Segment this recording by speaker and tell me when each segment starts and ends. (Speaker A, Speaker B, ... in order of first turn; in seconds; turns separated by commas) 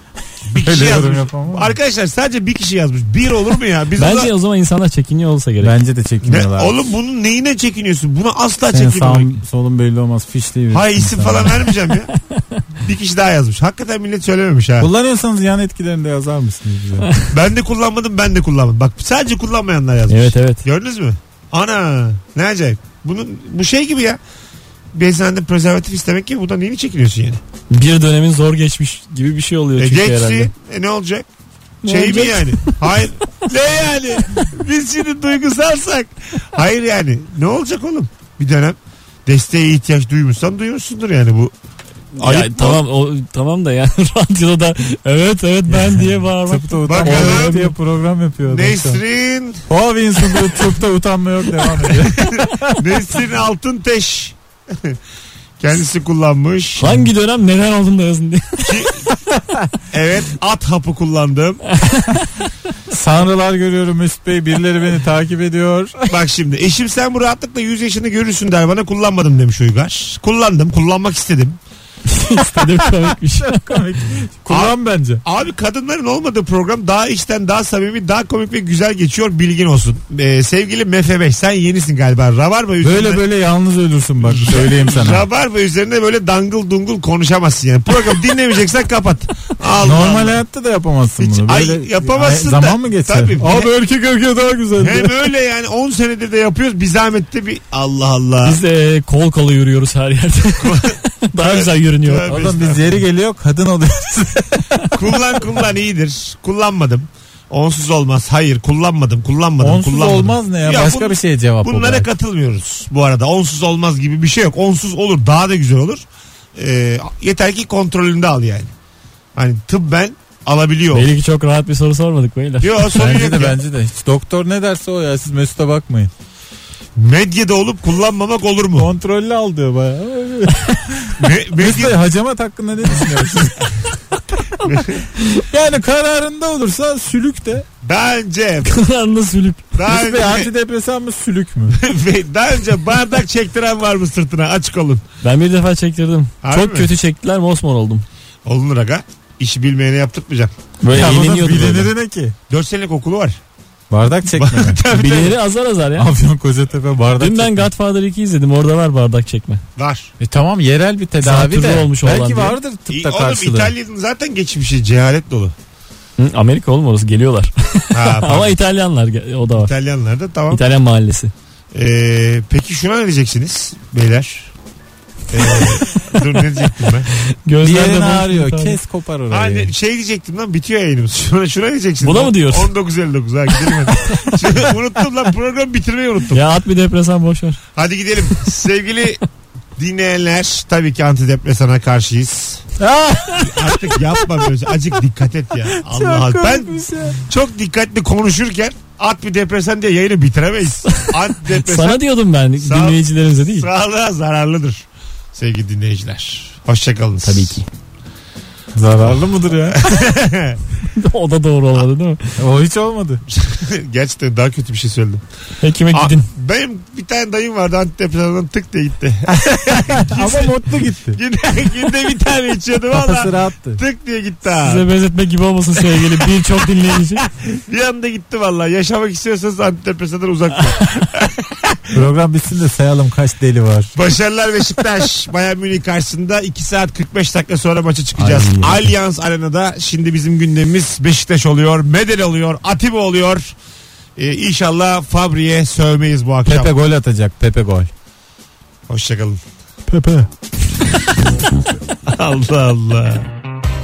Speaker A: 0.5-4.3, Speaker B: 0.6-1.7, Speaker C: 4.0-5.8, Speaker B: 5.6-6.9, Speaker A: 6.2-9.4, Speaker B: 8.7-11.7, Speaker A: 10.7-12.1, Speaker C: 12.1-12.6, Speaker A: 12.8-14.9, Speaker B: 14.8-17.1, Speaker A: 17.3-24.2, Speaker C: 20.1-20.6, Speaker A: 24.9-27.4, Speaker C: 27.7-30.5, Speaker A: 29.8-31.2, Speaker C: 31.8-32.8, Speaker A: 31.8-41.5, Speaker A: 42.1-42.8, Speaker C: 42.2-47.7, Speaker B: 45.7-49.0, Speaker A: 46.9-47.7, Speaker A: 48.4-49.6, Speaker B: 49.7-52.8, Speaker A: 52.2-55.0, Speaker A: 55.6-56.9, Speaker C: 56.8-58.9, Speaker A: 58.6-59.0, Speaker A: 59.9-61.6, Speaker C: 61.7-62.4, Speaker B: 62.9-66.0, Speaker A: 66.1-71.6, Speaker C: 72.1-73.8, Speaker B: 72.3-75.2, Speaker A: 74.5-83.2, Speaker B: 82.8-85.2, Speaker A: 84.2-90.4, Speaker B: 89.8-95.1, Speaker A: 91.2-93.7, Speaker A: 94.8-98.6, Speaker C: 98.4-102.5, Speaker A: 100.6-103.0, Speaker B: 102.2-104.6, Speaker A: 104.9-116.0, Speaker B: 109.6-112.1, Speaker A: 116.5-118.7, Speaker A: 119.3-121.1, Speaker C: 120.9-123.2, Speaker A: 122.6-123.6, Speaker B: 123.0-126.1, Speaker A: 127.0-128.9, Speaker B: 128.8-133.7, Speaker A: 131.2-132.0, Speaker A: 134.7-135.0, Speaker B: 135.5-137.7, Speaker A: 137.8-138.8, Speaker C: 138.6-139.7, Speaker A: 139.7-140.5, Speaker B: 139.8-141.8, Speaker A: 141.7-145.0, Speaker C: 145.2-148.0, Speaker A: 146.4-146.9, Speaker A: 148.4-150.5, Speaker C: 150.8-151.9, Speaker B: 150.9-152.3, Speaker A: 152.5-153.4, Speaker B: 153.9-154.8, Speaker A: 154.3-155.4, Speaker C: 154.9-156.1, Speaker B: 156.0-157.7, Speaker C: 157.1-159.6, Speaker A: 159.8-160.1, Speaker B: 160.2-163.7, Speaker C: 161.2-162.6, Speaker A: 162.9-165.5, Speaker C: 166.2-169.7, Speaker A: 167.9-168.6, Speaker A: 169.6-170.6, Speaker C: 170.5-171.3, Speaker A: 171.7-174.5, Speaker A: 175.3-177.1, Speaker C: 175.3-175.8, Speaker C: 177.4-178.8, Speaker B: 177.6-179.7, Speaker A: 179.3-186.4, Speaker C: 182.0-182.7, Speaker C: 186.3-187.6, Speaker A: 187.7-189.2, Speaker A: 189.8-192.6, Speaker B: 192.8-193.7, Speaker A: 193.4-202.0, Speaker B: 195.8-197.2, Speaker C: 200.9-203.7, Speaker A: 202.6-207.6, Speaker C: 207.2-207.7, Speaker B: 208.7-209.9, Speaker A: 209.0-210.6, Speaker C: 210.8-212.3, Speaker B: 212.4-213.2, Speaker A: 213.3-215.2, Speaker C: 215.6-216.3, Speaker A: 215.9-224.8, Speaker B: 219.5-221.2, Speaker B: 222.9-223.8, Speaker C: 224.5-227.2, Speaker A: 227.2-231.8, Speaker B: 231.9-233.9, Speaker A: 233.9-243.5, Speaker B: 238.2-238.9, Speaker A: 244.2-246.7, Speaker B: 246.5-247.9, Speaker A: 248.9-249.4, Speaker B: 249.9-250.3, Speaker A: 252.1-253.2